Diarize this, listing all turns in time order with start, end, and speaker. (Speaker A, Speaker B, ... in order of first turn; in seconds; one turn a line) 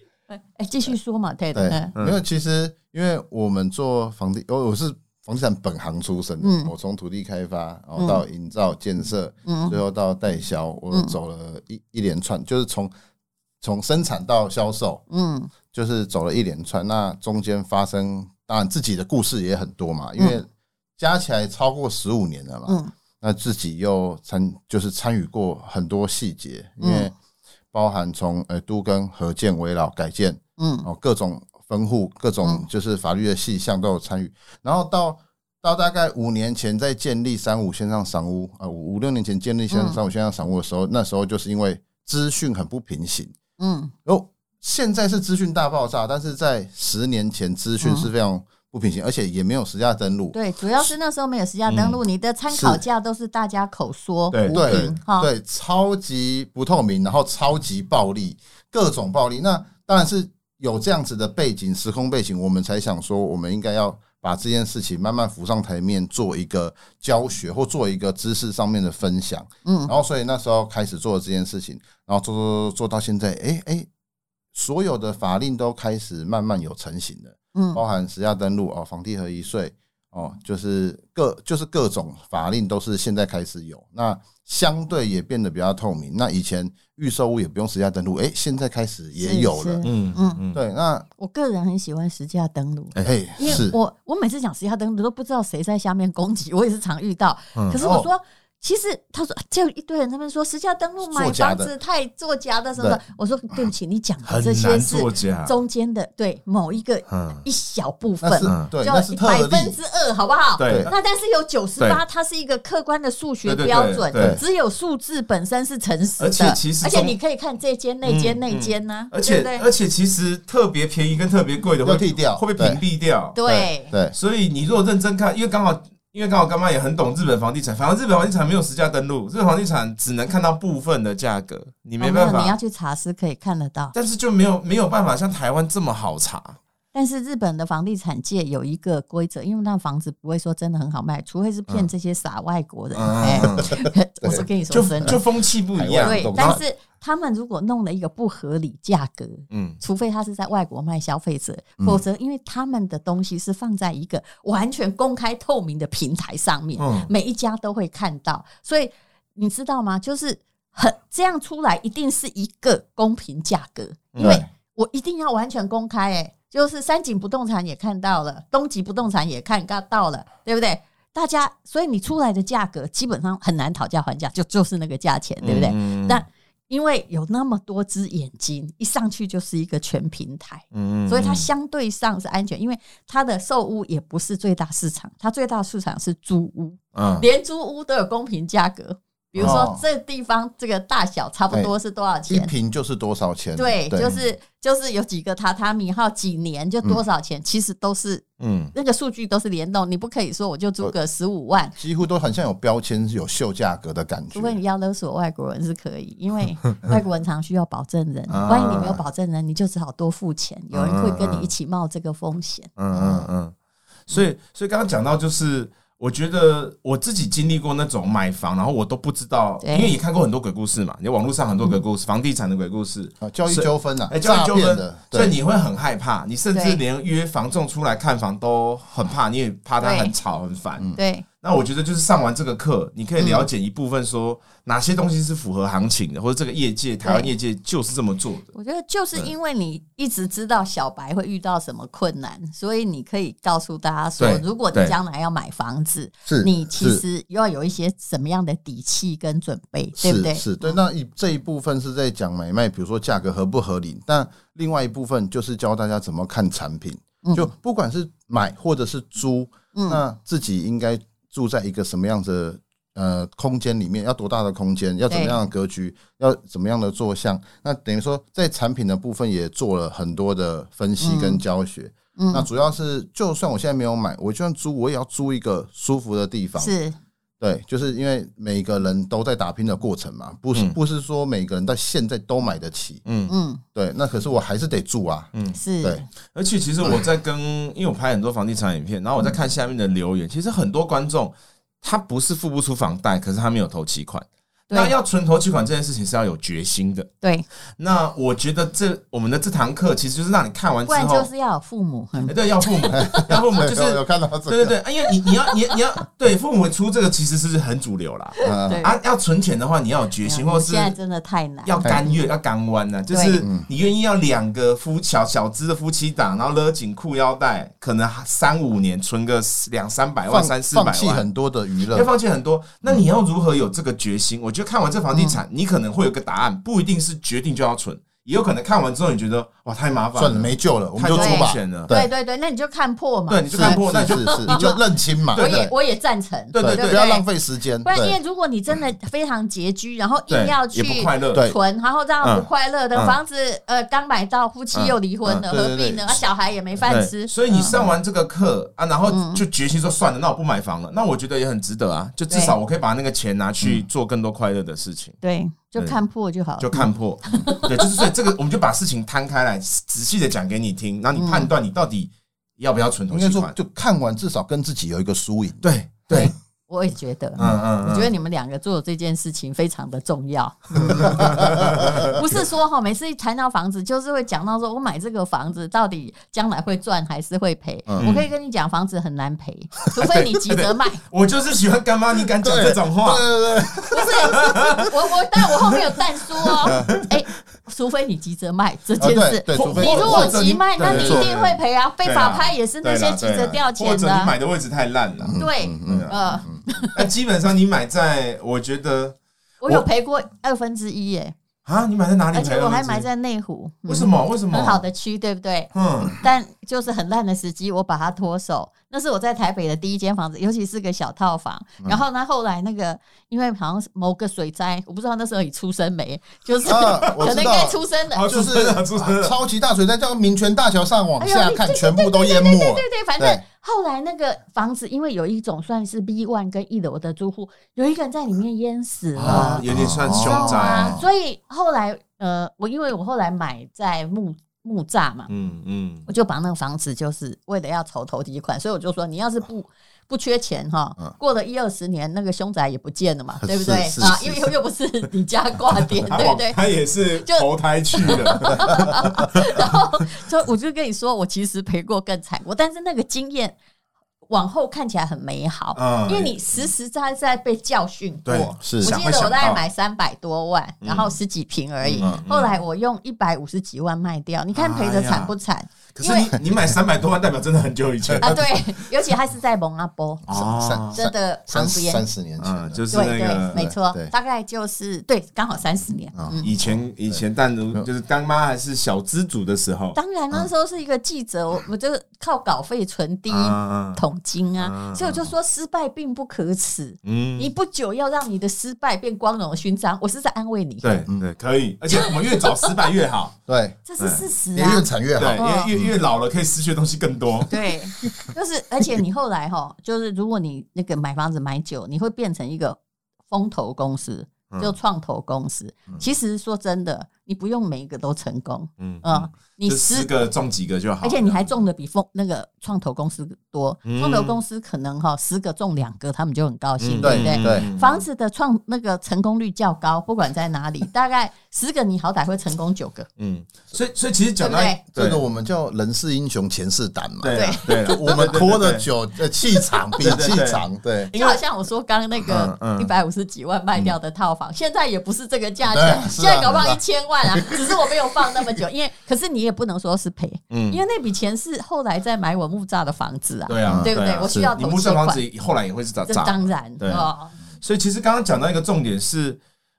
Speaker A: 0.3-1.9
Speaker B: 1.5-12.9
Speaker A: 6.4-6.7
Speaker A: 8.0-8.2
Speaker A: 9.5-9.8
Speaker B: 13.6-15.0
Speaker A: 15.1-15.5
Speaker B: 15.7-20.5
Speaker B: 21.0-27.1
Speaker A: 22.7-22.9
Speaker A: 26.8-27.1
Speaker B: 27.7-43.3
Speaker A: 30.6-30.9
Speaker A: 39.7-40.0
Speaker A: 43.6-43.9
Speaker B: 44.0-50.4
Speaker A: 47.8-48.1
Speaker A: 50.3-55.3
Speaker C: 51.7-52.0
Speaker B: 52.5-52.8
Speaker C: 54.3-54.9
Speaker B: 54.5-73.9
Speaker A: 69.7-69.9
Speaker B: 74.5-89.9
Speaker A: 77.5-77.8
Speaker A: 89.2-90.4
Speaker C: 89.8-90.6
Speaker B: 90.5-91.1
Speaker A: 91.2-119.7
Speaker C: 93.0-93.6
Speaker B: 93.0-93.8
Speaker C: 97.5-97.8
Speaker B: 97.8-98.1
Speaker B: 101.0-101.7
Speaker C: 104.3-105.5
Speaker C: 107.1-107.4
Speaker B: 108.2-109.8
Speaker C: 110.6-110.9
Speaker B: 110.7-110.9
Speaker C: 113.5-114.4
Speaker B: 114.2-114.4
Speaker C: 116.2-117.2
Speaker C: 118.0-123.4
Speaker B: 121.8-122.8
Speaker A: 123.3-123.9
Speaker B: 123.5-124.1
Speaker C: 124.1-132.6
Speaker A: 132.0-133.9
Speaker C: 133.9-136.6
Speaker A: 136.9-145.2
Speaker C: 143.0-143.8
Speaker B: 143.2-144.4
Speaker C: 144.7-146.6
Speaker B: 145.8-146.6
Speaker A: 146.0-192.5
Speaker C: 149.5-149.8
Speaker C: 156.8-157.1
Speaker C: 164.1-164.4
Speaker C: 175.4-176.2
Speaker C: 180.7-181.5
Speaker C: 186.9-187.3
Speaker C: 189.4-189.6
Speaker B: 189.4-189.8
Speaker B: 192.3-194.1
Speaker A: 193.6-201.8
Speaker C: 198.4-198.7
Speaker B: 201.8-204.6
Speaker A: 204.3-212.7
Speaker C: 208.3-209.0
Speaker C: 210.7-211.5
Speaker C: 212.8-213.5
Speaker B: 212.9-213.3
Speaker C: 214.1-238.5
Speaker A: 219.6-220.0
Speaker B: 223.2-225.3
Speaker A: 226.5-226.8
Speaker A: 229.8-230.1
Speaker A: 230.9-231.3
Speaker A: 233.2-233.5
Speaker A: 237.0-237.3
Speaker A: 238.5-250.8
Speaker C: 244.2-244.9
Speaker B: 246.3-247.0
Speaker B: 250.0-276.8
Speaker A: 257.2-257.5
Speaker A: 259.7-260.0
Speaker A: 265.1-265.4
Speaker A: 271.0-271.4
Speaker A: 272.2-272.5
Speaker A: 276.6-277.0
Speaker B: 277.4-283.0
Speaker C: 283.1-283.3
Speaker A: 283.3-283.6
Speaker B: 283.8-286.0
Speaker C: 285.3-285.6
Speaker A: 285.6-286.1
Speaker C: 286.2-297.1
Speaker C: 297.8-301.3
Speaker A: 300.9-303.3
Speaker C: 302.3-310.9
Speaker B: 302.9-304.8
Speaker B: 308.4-308.8
Speaker A: 308.4-309.0
Speaker A: 310.2-312.2
Speaker C: 311.6-321.2
Speaker B: 311.8-312.1
Speaker A: 313.1-313.5
Speaker B: 313.4-313.7
Speaker B: 320.3-322.1
Speaker C: 321.9-331.9
Speaker A: 325.1-325.4
Speaker B: 330.2-332.1
Speaker A: 331.1-334.8
Speaker C: 333.3-334.7
Speaker B: 333.5-335.7
Speaker C: 335.3-335.7
Speaker A: 335.3-337.2
Speaker C: 336.5-337.0
Speaker B: 336.6-338.2
Speaker A: 337.8-347.8
Speaker C: 340.3-341.4
Speaker C: 342.2-343.2
Speaker C: 344.7-345.4
Speaker B: 345.5-346.2
Speaker C: 346.9-355.2
Speaker A: 349.1-349.4
Speaker A: 352.3-352.6
Speaker A: 355.2-358.1
Speaker C: 356.6-363.6
Speaker A: 361.2-361.5
Speaker B: 363.1-365.7
Speaker C: 365.6-366.3
Speaker A: 366.1-381.0
Speaker C: 367.4-368.1
Speaker C: 371.0-372.2
Speaker B: 371.0-372.1
Speaker B: 377.9-378.1
Speaker C: 378.0-378.3
Speaker C: 380.0-383.3
Speaker B: 382.4-384.6
Speaker A: 383.9-394.3
Speaker C: 384.2-384.9
Speaker C: 386.6-387.1
Speaker B: 386.7-387.0
Speaker B: 389.0-391.3
Speaker C: 389.5-396.3
Speaker B: 395.2-396.6
Speaker A: 395.4-397.1
Speaker C: 396.9-399.9
Speaker A: 399.6-401.4
Speaker C: 401.7-403.1
Speaker A: 402.3-418.3
Speaker C: 403.9-404.8
Speaker C: 405.7-406.2
Speaker B: 416.6-423.4
Speaker C: 418.1-419.4
Speaker A: 421.2-435.3
Speaker C: 429.2-431.0
Speaker B: 429.2-431.1
Speaker C: 435.3-436.1
Speaker A: 436.1-446.6
Speaker B: 443.4-444.5
Speaker C: 446.1-449.7
Speaker A: 447.2-453.6
Speaker A: 454.3-466.3
Speaker C: 455.8-456.4
Speaker C: 458.3-459.6
Speaker B: 458.6-458.9
Speaker C: 460.8-461.2
Speaker C: 461.8-462.6
Speaker C: 464.5-465.3
Speaker C: 465.9-468.5
Speaker A: 468.2-472.0
Speaker C: 470.3-471.0
Speaker B: 470.3-472.8
Speaker C: 472.4-473.6
Speaker A: 472.9-476.6
Speaker B: 473.5-474.1
Speaker B: 476.1-476.4
Speaker C: 476.4-480.0
Speaker A: 479.9-491.1
Speaker C: 483.3-484.0
Speaker C: 484.6-485.3
Speaker C: 487.0-487.5
Speaker C: 490.8-493.4
Speaker A: 491.9-492.7
Speaker B: 493.5-493.8
Speaker A: 493.9-495.7
Speaker C: 494.0-494.2
Speaker B: 494.6-496.0
Speaker C: 495.2-497.5
Speaker A: 497.5-510.1
Speaker C: 504.5-504.8
Speaker C: 508.8-511.6
Speaker A: 511.0-523.1
Speaker C: 513.9-514.4
Speaker C: 516.8-518.0
Speaker B: 517.0-517.7
Speaker C: 523.2-525.2
Speaker A: 524.4-524.8
Speaker B: 524.9-531.1
Speaker C: 527.2-528.9
Speaker A: 527.3-528.4
Speaker C: 530.0-531.4
Speaker A: 531.1-545.2
Speaker C: 532.3-532.9
Speaker B: 535.7-537.7
Speaker C: 540.5-540.8
Speaker C: 543.5-547.1
Speaker B: 543.6-544.5
Speaker A: 546.1-547.3
Speaker C: 547.6-549.4